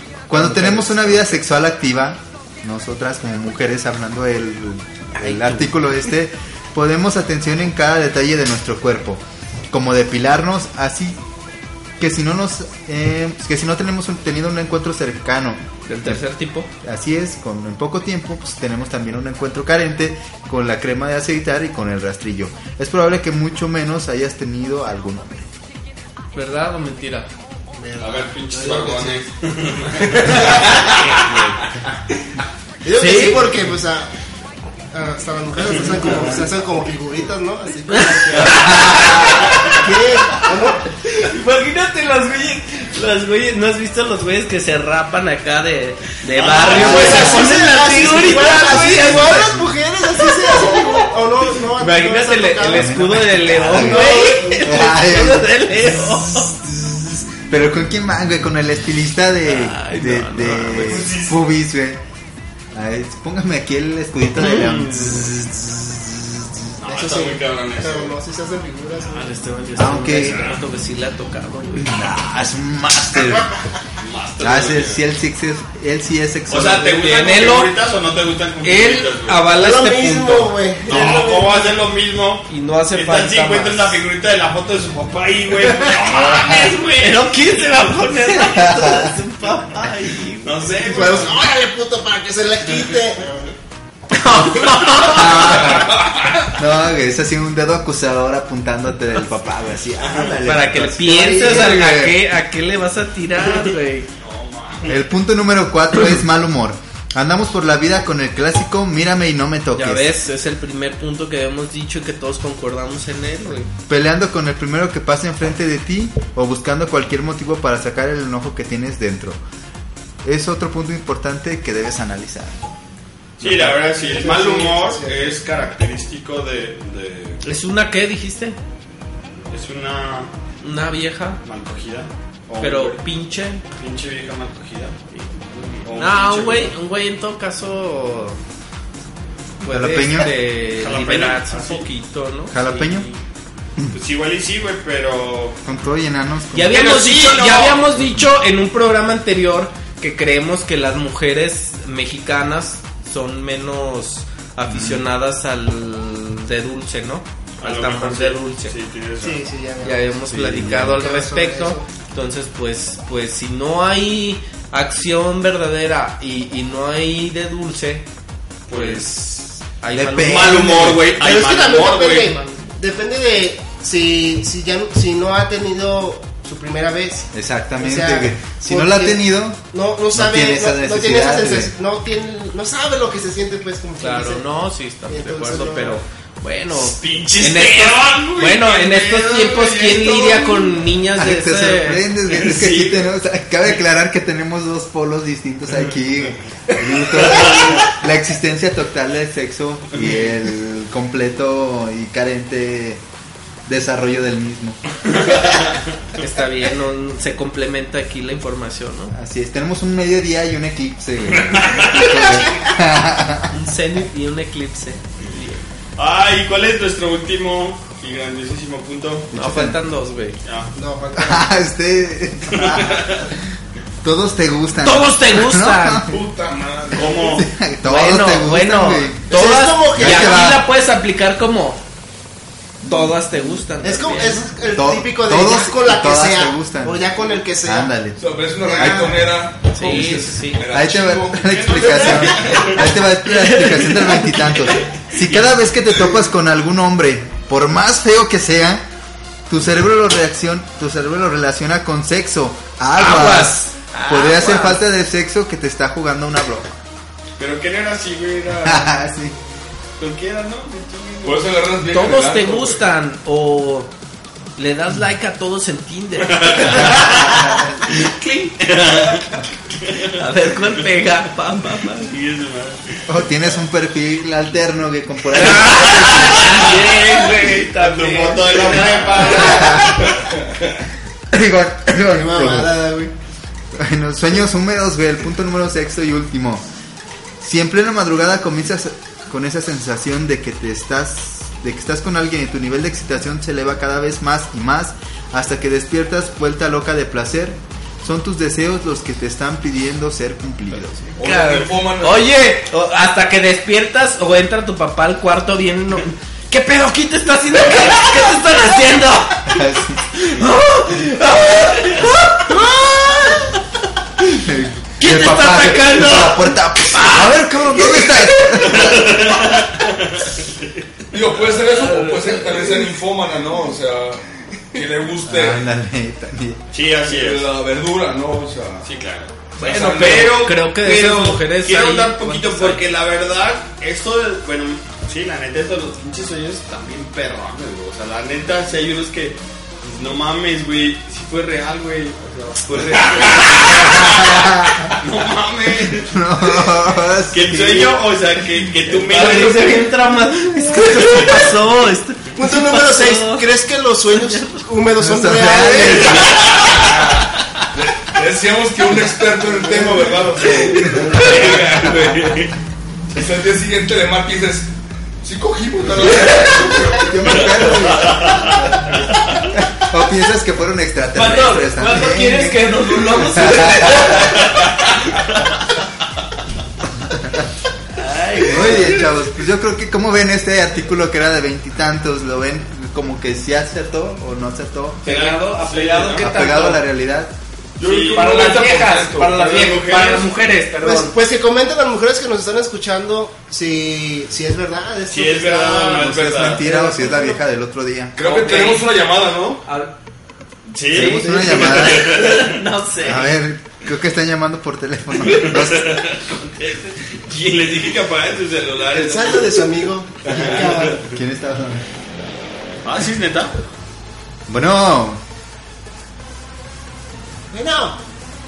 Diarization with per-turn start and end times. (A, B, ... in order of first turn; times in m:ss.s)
0:00.3-0:11.2 A
0:00.3-0:01.3 B
0:05.2-0:05.7 B
0:12.0-0:16.2 A
0:15.9-0:16.7 B
0:16.8-0:25.5 A
0:26.3-0:27.3 B
0:27.7-0:29.2 C
0:28.0-0:31.4 D
0:30.3-0:30.6 C
0:30.3-0:30.6 B
0:31.1-0:31.4 B
0:32.8-0:34.1 C
0:33.0-0:33.5 B
0:34.9-0:40.9 C
0:37.9-0:39.7 B
0:38.8-0:39.1 A
0:39.5-0:39.7 D
0:41.2-0:49.5 B
0:46.6-0:47.2 D
0:46.6-0:54.8 C
0:46.6-0:47.5 A
0:48.6-0:49.7 A
0:50.5-0:51.0 B
0:51.8-0:56.5 B
0:52.6-1:02.0 A
0:59.4-1:01.1 B
1:00.8-1:01.3 D
1:02.7-1:06.7 A
1:04.4-1:05.2 B
1:06.8-1:08.2 D
1:06.8-1:09.4 C
1:09.0-1:12.0 B
1:09.8-1:10.4 A
1:10.2-1:10.6 D
1:11.8-1:13.5 A
1:14.0-1:15.0 D
1:14.4-1:17.1 A
1:16.5-1:19.4 D
1:16.9-1:17.7 B
1:18.6-1:20.5 B
1:19.5-1:21.8 C
1:20.9-1:27.3 D
1:22.5-1:24.0 B
1:26.1-1:26.6 A
1:26.2-1:30.7 B
1:28.2-1:29.2 A
1:30.4-1:31.5 D
1:30.8-1:33.5 C
1:34.1-1:35.7 B
1:35.0-1:36.0 A
1:36.5-1:42.2 A
1:40.0-1:40.4 D
1:40.4-1:44.1 B
1:41.1-1:41.7 C
1:44.2-1:45.0 D
1:44.8-1:50.1 A
1:49.7-1:53.7 B
1:53.9-1:59.4 A
2:00.2-2:02.6 A
2:03.4-2:07.4 D
2:03.4-2:03.8 A
2:03.9-2:05.4 C
2:07.4-2:08.6 B
2:09.5-2:10.3 D
2:10.6-2:11.4 B
2:11.4-2:13.0 D
2:12.6-2:13.6 B
2:13.8-2:15.0 D
2:15.1-2:18.4 B
2:15.6-2:16.7 D
2:19.6-2:23.2 B
2:19.6-2:20.3 A
2:20.6-2:21.8 D
2:22.5-2:23.1 A
2:23.9-2:25.6 D
2:25.6-2:26.9 A
2:26.5-2:38.7 B
2:26.7-2:27.9 D
2:34.7-2:35.0 A
2:37.6-2:39.5 D
2:39.2-2:41.9 C
2:39.8-2:48.1 B
2:40.3-2:41.0 A
2:48.7-2:49.1 D
2:48.7-2:50.8 B
2:49.9-2:51.1 A
2:50.2-2:52.4 D
2:51.1-3:04.4 C
2:57.3-3:01.7 A
3:04.0-3:12.0 B
3:05.1-3:06.0 C
3:06.7-3:10.8 D
3:11.1-3:23.0 A
3:12.3-3:13.1 D
3:17.2-3:17.9 D
3:23.7-3:24.8 A
3:25.1-3:25.8 D
3:26.2-3:29.1 B
3:29.1-3:33.5 A
3:31.3-3:32.2 D
3:33.5-3:35.6 B
3:36.0-3:39.3 D
3:39.3-3:39.8 A
3:39.3-3:40.4 B
3:40.4-3:40.7 D
3:40.8-3:41.5 C
3:41.1-3:43.2 A
3:42.5-3:43.2 D
3:44.0-3:46.2 A
3:44.8-3:46.0 B
3:46.1-3:47.4 E
3:46.9-3:47.5 D
3:47.3-3:50.7 A
3:47.8-3:51.8 B
3:49.3-3:50.6 C
3:52.8-3:54.5 B
3:53.8-3:58.0 C
3:54.7-3:57.1 A
3:57.6-3:58.2 A
3:58.2-4:01.8 E
3:58.6-3:59.3 C
3:58.7-3:59.1 A
3:59.7-4:00.6 B
4:00.7-4:08.8 A
4:01.4-4:02.8 D
4:03.5-4:04.4 B
4:09.5-4:16.8 A
4:13.0-4:14.8 B
4:17.4-4:19.3 D
4:18.6-4:19.4 A
4:20.0-4:21.6 D
4:21.2-4:22.8 E
4:21.9-4:23.9 B
4:24.6-4:28.5 B
4:26.2-4:27.3 D
4:26.8-4:27.8 A
4:28.6-4:30.2 D
4:30.0-4:32.1 B
4:32.0-4:33.2 D
4:33.1-4:36.7 A
4:35.3-4:39.8 B
4:37.3-4:40.2 D
4:39.4-4:40.1 A
4:41.3-4:42.8 A
4:42.1-4:43.1 C
4:43.7-4:46.6 A
4:47.4-5:01.2 A
5:01.2-5:02.3 E
5:01.2-5:09.6 B
5:09.4-5:10.0 A
5:10.1-5:13.6 B
5:14.3-5:19.4 A
5:15.0-5:18.4 B
5:18.7-5:20.7 D
5:21.1-5:25.7 E
5:21.7-5:22.7 B
5:25.2-5:26.6 A
5:26.7-5:27.5 D
5:27.0-5:28.9 E
5:28.8-5:46.7 D
5:29.6-5:30.4 E
5:29.6-5:32.8 B
5:43.7-5:44.9 A
5:46.0-5:48.1 A
5:47.3-5:49.9 D
5:48.9-5:53.5 B
5:52.4-5:56.4 C
5:54.1-5:54.6 B
5:55.0-5:56.3 A
5:56.6-5:57.1 E
5:57.7-6:02.4 E
5:59.7-6:00.3 C
6:00.4-6:01.2 A
6:00.8-6:01.6 B
6:01.2-6:02.5 D
6:03.1-6:04.7 E
6:05.2-6:07.7 E
6:06.9-6:14.1 A
6:08.0-6:08.5 D
6:11.1-6:14.7 B
6:17.1-6:17.4 A
6:18.0-6:19.1 B
6:18.4-6:25.0 A
6:25.0-6:26.8 B
6:25.0-6:26.3 D
6:26.2-6:27.3 A
6:27.8-6:28.6 D
6:27.8-6:29.7 E
6:27.9-6:31.2 B
6:29.3-6:30.3 D
6:30.8-6:36.1 C
6:35.1-6:36.7 D
6:36.0-6:38.2 A
6:36.6-6:37.4 C
6:38.1-6:39.6 E
6:38.2-6:38.9 B
6:39.6-6:39.9 B
6:40.6-6:42.5 D
6:40.9-6:42.2 A
6:40.9-6:43.3 B
6:43.0-6:46.0 A
6:45.3-6:51.1 D
6:48.9-6:51.0 C
6:50.9-6:51.8 A
6:52.8-6:53.6 D
6:54.5-6:55.2 A
6:57.5-6:58.0 C